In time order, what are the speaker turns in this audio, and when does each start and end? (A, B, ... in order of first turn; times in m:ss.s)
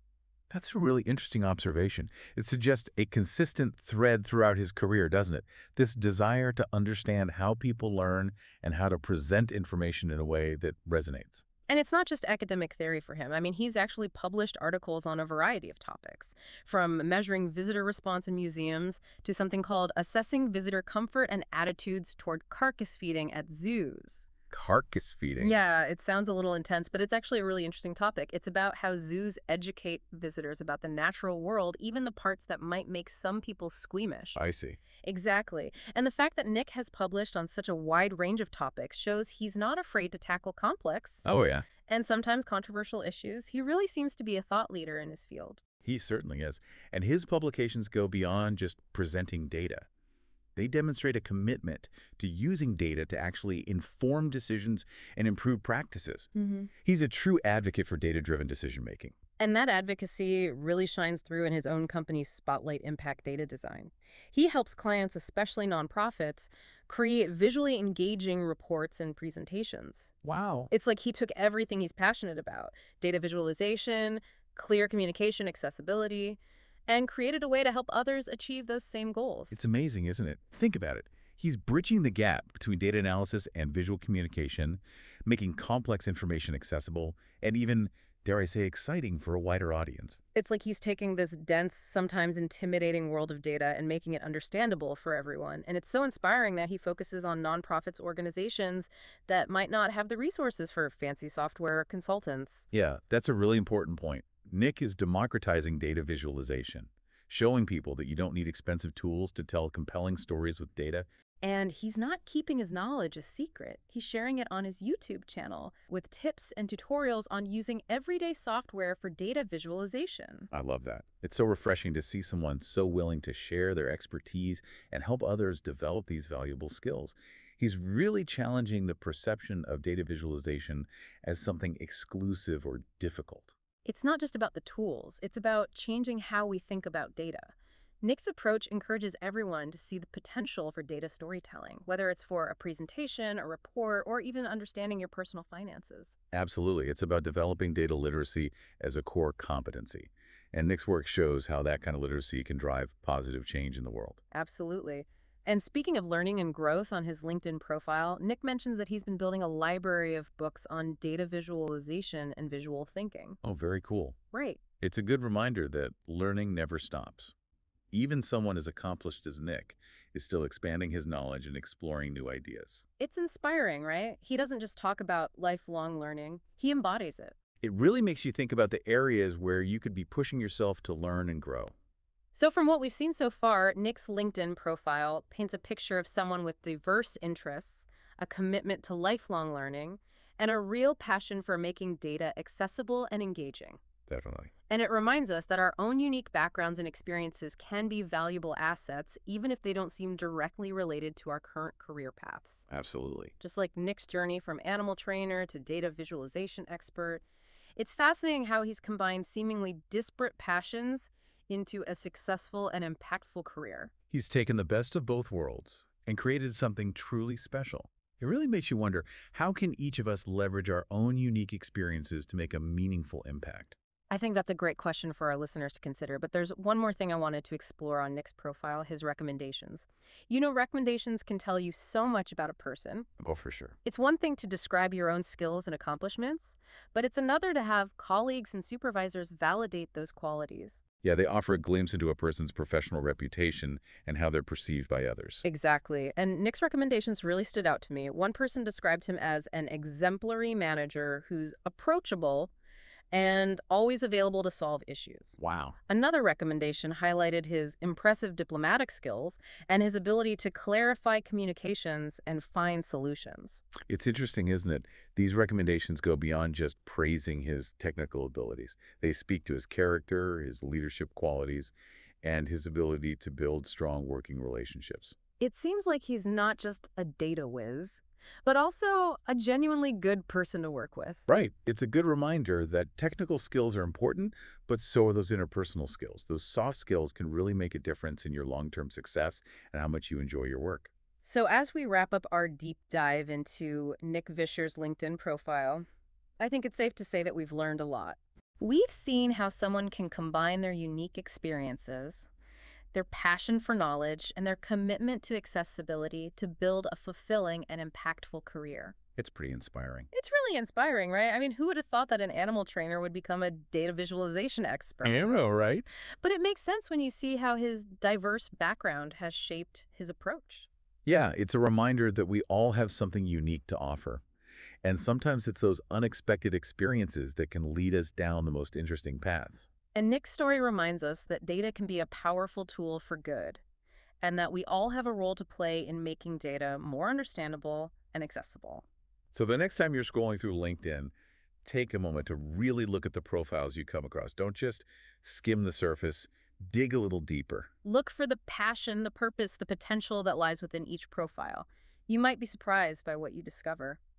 0:00.5-0:11.4 A
0:11.7-0:24.3 B
0:24.5-0:25.6 A
0:25.4-0:34.4 B
0:34.4-0:34.8 A
0:35.0-0:41.3 B
0:41.2-0:41.7 A
0:41.9-0:45.6 B
0:45.8-0:49.9 A
0:50.6-0:56.3 A
0:56.3-0:56.7 B
0:56.8-0:59.1 A
0:59.4-1:10.2 B
1:10.2-1:10.7 A
1:10.7-1:19.6 B
1:19.5-1:30.2 A
1:30.3-1:42.6 B
1:42.7-1:51.0 A
1:51.4-2:00.5 B
2:00.5-2:13.5 A
2:13.8-2:26.1 B
2:26.3-2:34.2 A
2:34.3-2:43.4 B
2:43.4-2:44.2 A
2:44.3-2:44.6 B
2:44.8-2:47.3 A
2:47.9-2:52.8 A
2:53.0-2:57.3 B
2:57.6-3:01.7 A
3:02.3-3:13.8 B
3:14.1-3:14.5 A
3:14.7-3:22.6 B
3:22.7-3:23.3 A
3:23.4-3:27.2 B
3:27.8-3:33.9 B
3:34.1-3:43.7 A
3:44.1-3:53.1 B
3:53.2-3:53.8 A
3:53.8-4:00.8 B
4:01.0-4:05.4 A
4:05.4-4:12.5 B
4:13.1-4:23.6 B
4:15.4-4:15.8 A
4:23.8-4:35.2 A
4:35.4-4:41.2 B
4:41.3-4:50.9 A
4:51.2-4:55.8 B
4:56.4-5:02.3 B
5:02.9-5:09.0 B
5:09.2-5:10.1 A
5:10.1-5:15.3 B
5:15.0-5:15.8 A
5:16.2-5:20.7 B
5:21.0-5:24.2 A
5:24.8-5:29.7 A
5:29.9-5:33.6 B
5:34.2-5:38.8 B
5:39.3-5:41.1 A
5:41.6-5:47.7 A
5:47.8-5:54.0 B